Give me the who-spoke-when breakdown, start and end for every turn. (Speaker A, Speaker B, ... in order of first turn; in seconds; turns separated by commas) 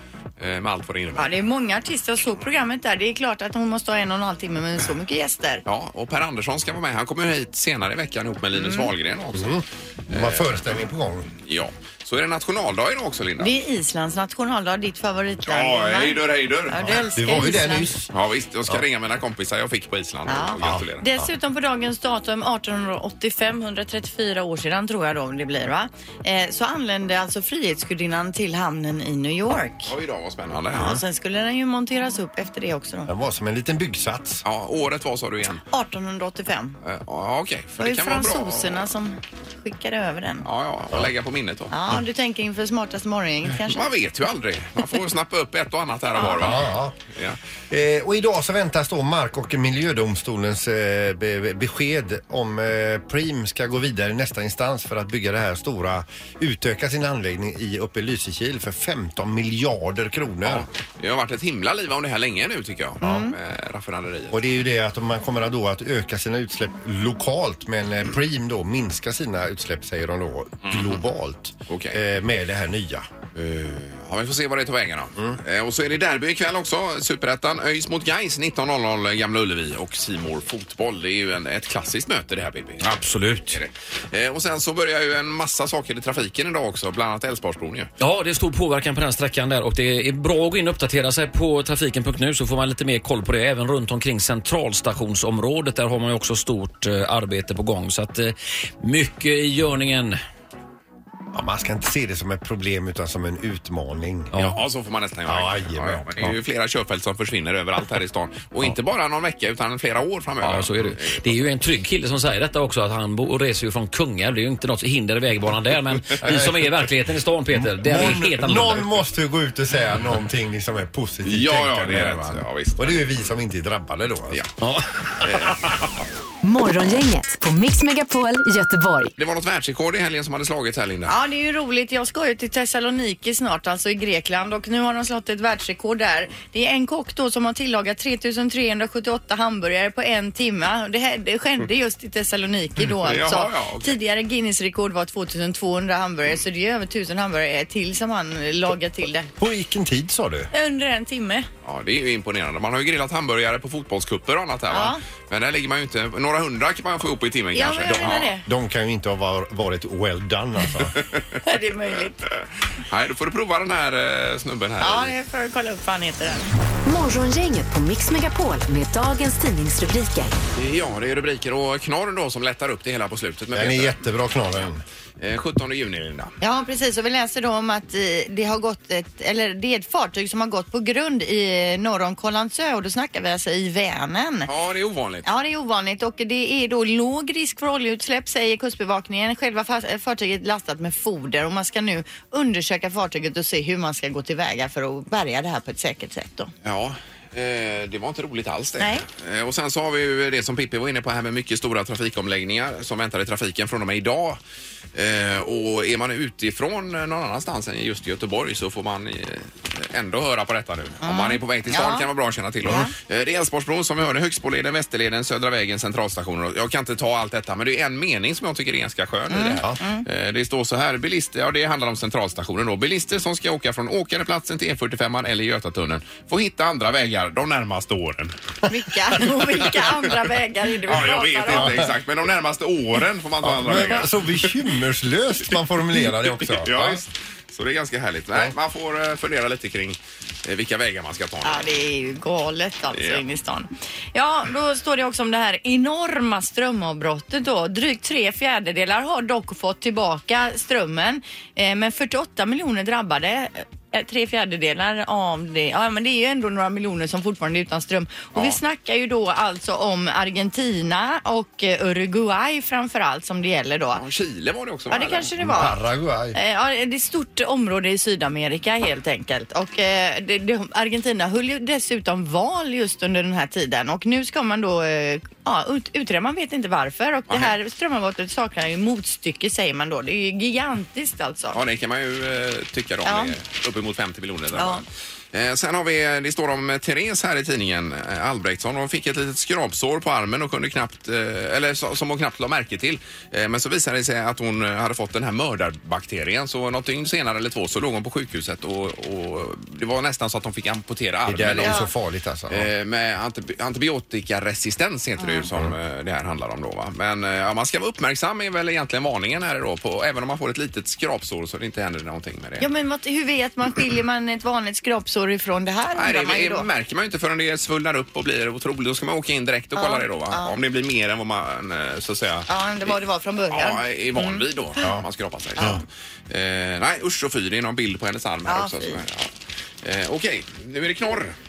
Speaker A: 0.4-1.3, Speaker B: 1.1-5.6, Speaker A: 5.7-10.6, Speaker B: 8.6-8.9, Speaker C: 9.3-11.3, Speaker A: 11.4-13.5, Speaker B: 13.4-17.9, Speaker A: 15.5-17.4, Speaker C: 16.8-18.1, Speaker A: 18.1-21.1, Speaker B: 20.3-29.9, Speaker A: 29.8-31.0, Speaker B: 30.7-33.1, Speaker C: 33.1-34.4, Speaker A: 34.4-35.6, Speaker B: 35.7-36.8, Speaker A: 36.8-38.9, Speaker B: 37.8-40.5, Speaker A: 40.4-41.7, Speaker B: 41.7-43.8, Speaker A: 43.6-47.4, Speaker B: 46.2-46.4, Speaker C: 46.3-47.0, Speaker C: 47.7-60.7, Speaker A: 60.5-64.4, Speaker C: 63.0-63.3, Speaker B: 63.0-63.3, Speaker C: 64.3-73.1, Speaker A: 70.6-71.0, Speaker A: 71.7-72.0, Speaker A: 73.3-83.0, Speaker D: 82.8-83.6, Speaker A: 83.5-87.9, Speaker D: 88.0-100.2, Speaker C: 101.3-104.3, Speaker D: 104.3-104.6, Speaker A: 104.4-111.4, Speaker C: 105.3-106.2, Speaker D: 110.4-118.9, Speaker C: 116.2-116.7, Speaker C: 117.5-124.4, Speaker A: 121.2-123.1, Speaker A: 125.2-125.6, Speaker E: 126.4-129.1, Speaker A: 129.2-131.1, Speaker B: 131.1-149.3, Speaker A: 143.0-143.9, Speaker C: 149.4-150.5, Speaker B: 150.5-151.5, Speaker A: 151.6-158.3, Speaker B: 154.7-155.0, Speaker B: 157.5-158.4, Speaker C: 158.4-161.0, Speaker A: 161.0-161.4, Speaker B: 161.4-162.2, Speaker A: 162.8-165.1, Speaker B: 164.8-166.5, Speaker E: 166.8-170.3, Speaker A: 170.5-174.0, Speaker C: 173.5-174.8, Speaker A: 175.2-176.3, Speaker B: 176.4-184.5, Speaker A: 184.4-185.2, Speaker B: 185.2-196.5, Speaker A: 196.6-204.4, Speaker B: 198.8-199.0, Speaker A: 204.9-228.3, Speaker B: 211.0-212.1, Speaker B: 212.6-212.9, Speaker B: 219.3-220.1, Speaker B: 228.7-231.8, Speaker A: 230.9-234.5, Speaker C: 231.5-231.9, Speaker C: 233.4-237.0, Speaker A: 236.2-241.6, Speaker B: 241.4-264.0, Speaker A: 242.9-243.2, Speaker A: 263.9-265.3, Speaker B: 264.9-265.8, Speaker C: 265.4-266.4, Speaker B: 266.3-281.6, Speaker A: 277.3-277.5, Speaker A: 281.5-301.8, Speaker B: 283.0-283.3, Speaker B: 284.5-284.8, Speaker C: 301.2-302.7, Speaker B: 301.6-301.9, Speaker A: 302.5-312.7, Speaker B: 305.2-305.5, Speaker B: 312.6-316.7, Speaker A: 315.9-322.9, Speaker B: 319.8-320.5, Speaker B: 322.5-324.9, Speaker A: 323.5-329.3, Speaker B: 328.5-329.0, Speaker A: 329.8-331.4